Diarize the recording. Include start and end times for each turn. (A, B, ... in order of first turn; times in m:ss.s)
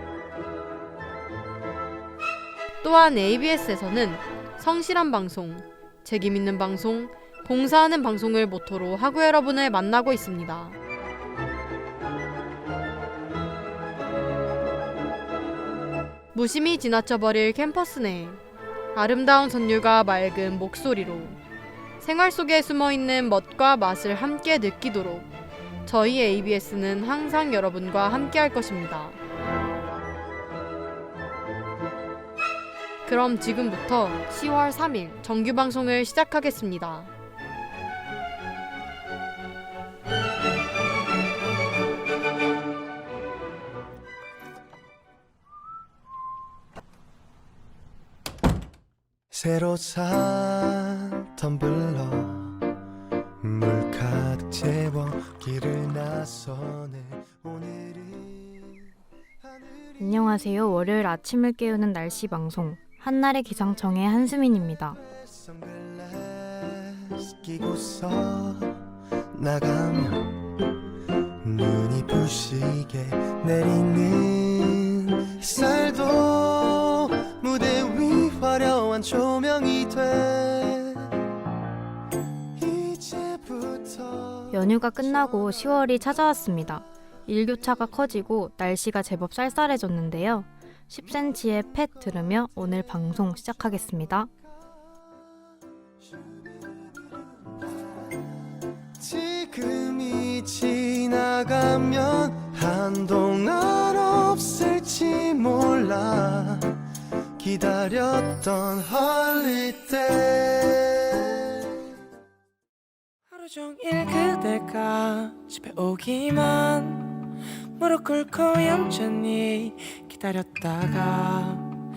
0:02.8-0:10.8 A
0:16.3-0:18.4 A
0:19.0-0:21.4 A
0:22.0-0:25.3 A
0:25.9-0:29.2 A
0:33.0-0:37.1 A
0:49.3-0:52.6 B
0:53.4-0:58.9 B
0:59.4-1:00.3 B
1:00.0-1:05.0 C
1:05.0-1:08.8 B
1:09.3-1:10.4 B
1:11.4-1:21.2 B
1:22.6-1:25.8 B
1:24.5-1:34.3 C
1:36.4-1:37.1 B
1:39.0-1:46.8 B
1:47.4-1:51.7 B
1:53.3-1:57.2 D
1:57.8-2:01.7 D